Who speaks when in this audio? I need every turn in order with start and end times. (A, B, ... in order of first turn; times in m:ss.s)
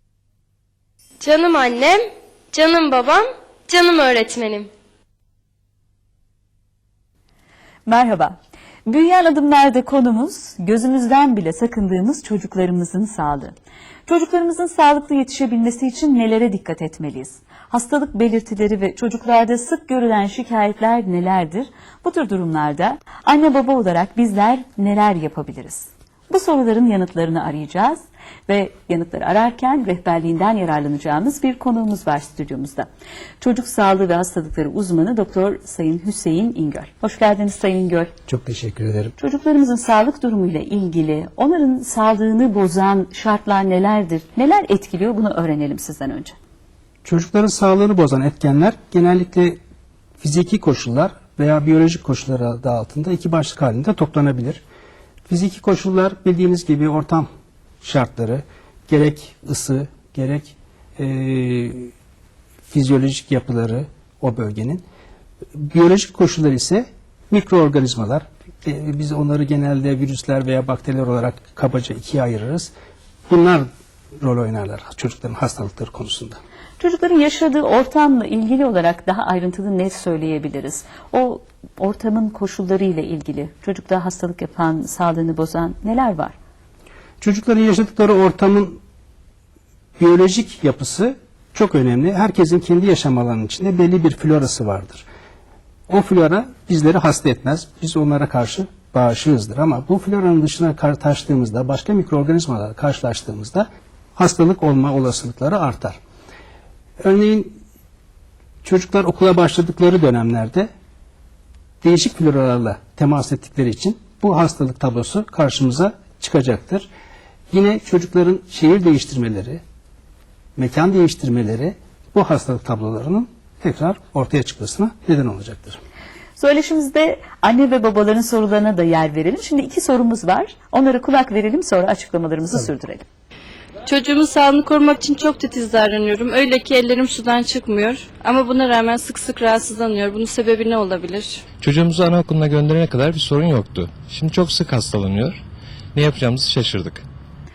0:01.2-0:02.0 A
0:02.5-0:04.7 A
0:07.8-0:08.4 B
0:08.9-0:13.5 B
0:14.1-0:32.9 B
0:33.4-0:38.1 B
0:38.3-0:39.1 C
0:39.2-0:46.4 B
0:47.0-0:49.6 C
0:50.2-0:54.6 C
0:55.3-0:57.3 C
0:57.8-1:01.9 C
1:02.7-1:04.8 C
1:05.5-1:12.7 C
1:13.3-1:13.7 C
1:14.2-1:16.4 C
1:16.8-1:26.3 B
1:27.2-1:28.8 C
1:30.0-1:35.0 C
1:35.9-1:43.6 C
1:44.2-1:46.0 C
1:47.0-1:47.6 C
1:48.6-1:50.7 C
1:51.8-1:56.9 C
1:57.5-1:59.6 C
2:00.6-2:05.8 C
2:06.4-2:13.0 B
2:13.9-2:21.4 D
2:21.6-2:25.4 E
2:25.9-2:27.0 E